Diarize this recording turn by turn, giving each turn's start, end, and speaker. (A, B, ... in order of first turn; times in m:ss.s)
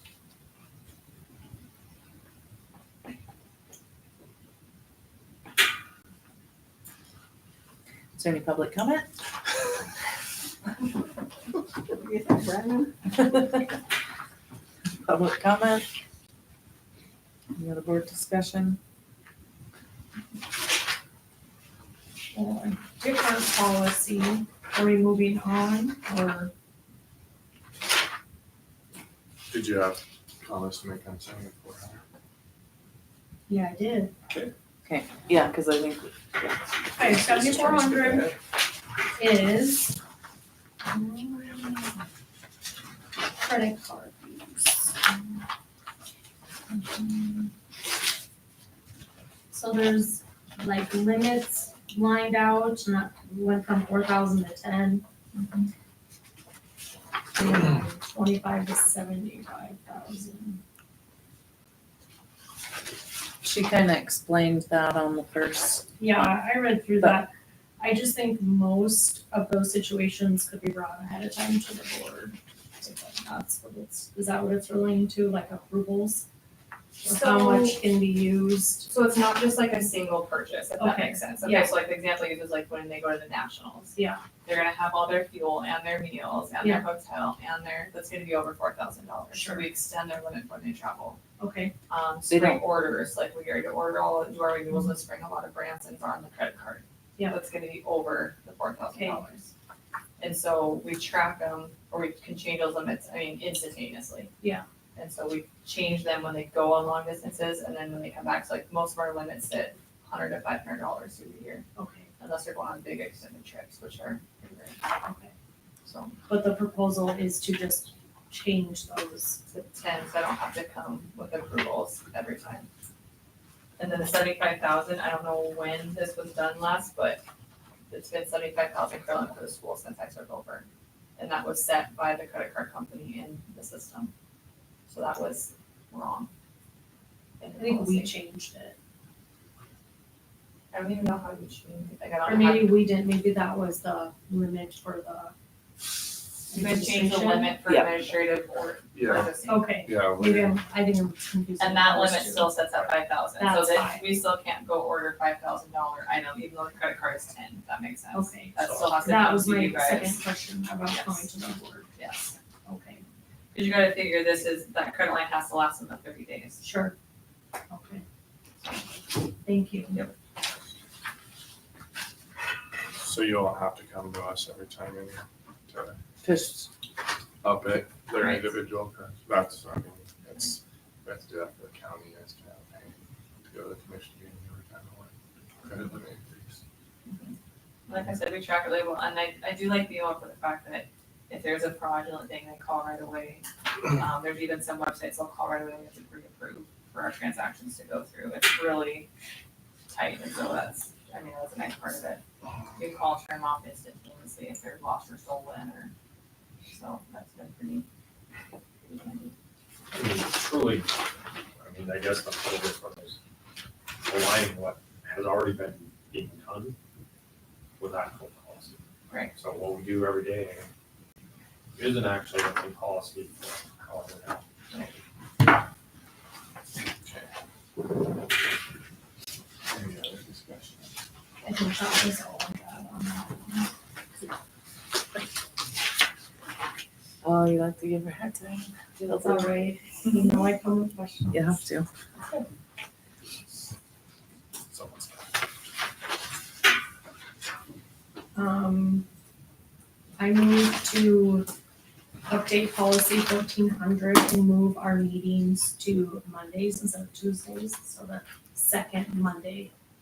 0:08.1-0:09.1 A
0:12.0-0:13.6 A
0:15.0-0:15.9 A
0:17.6-0:18.8 A
0:22.3-0:26.5 B
0:29.5-0:32.0 C
0:33.5-0:34.1 B
0:34.8-0:37.2 A
0:36.9-0:38.3 B
0:39.2-0:40.0 B
0:43.4-0:44.9 B
0:49.5-0:55.0 B
0:57.3-1:00.6 B
1:03.4-1:05.9 A
1:06.0-1:16.2 B
1:17.0-1:17.8 D
1:17.0-1:18.9 B
1:18.9-1:23.9 D
1:20.8-1:21.7 B
1:23.9-1:24.2 B
1:24.4-1:31.2 D
1:26.6-1:26.8 B
1:29.3-1:29.7 B
1:31.4-1:31.7 B
1:31.9-1:39.5 D
1:32.3-1:32.6 A
1:38.9-1:39.2 B
1:40.2-1:44.3 D
1:45.0-1:51.6 D
1:51.8-1:52.1 B
1:52.2-1:54.8 D
1:55.0-1:55.3 B
1:55.8-1:56.2 D
1:56.3-1:59.4 B
1:59.5-2:02.7 D
2:03.8-2:07.2 D
2:07.9-2:14.1 D
2:14.9-2:16.3 D
2:17.4-2:18.2 D
2:17.6-2:18.8 B
2:20.7-2:22.8 D
2:22.2-2:25.3 B
2:26.5-2:27.6 B
2:26.5-2:29.7 D
2:28.9-2:29.3 C
2:29.4-2:32.6 B
2:29.8-2:30.6 C
2:31.6-2:40.2 D
2:33.4-2:34.1 B
2:38.1-2:41.9 B
2:38.6-2:39.0 E
2:40.9-2:41.2 D
2:42.0-2:42.3 D
2:42.6-2:43.0 B
2:43.5-2:46.6 D
2:46.6-2:46.9 B
2:47.7-2:48.0 B
2:49.4-2:50.0 B
2:53.0-2:56.0 C
2:56.2-2:56.7 A
2:57.4-3:06.6 C
2:58.2-2:58.5 D
3:07.1-3:07.3 D
3:07.9-3:19.1 D
3:19.9-3:22.2 D
3:22.8-3:25.9 D
3:26.7-3:27.8 D
3:28.8-3:29.3 D
3:29.9-3:30.9 E
3:31.6-3:33.2 E
3:34.0-3:36.8 E
3:37.8-3:38.8 E
3:39.1-3:39.3 D
3:39.4-3:40.7 E
3:41.7-3:44.4 E
3:49.8-3:50.1 C
3:50.2-3:50.8 E
3:51.4-3:53.7 B
3:57.2-3:59.6 A
3:59.1-4:01.5 B
4:01.3-4:01.9 A
4:04.7-4:05.1 E
4:08.3-4:09.0 B
4:10.2-4:11.5 B
4:12.3-4:19.7 B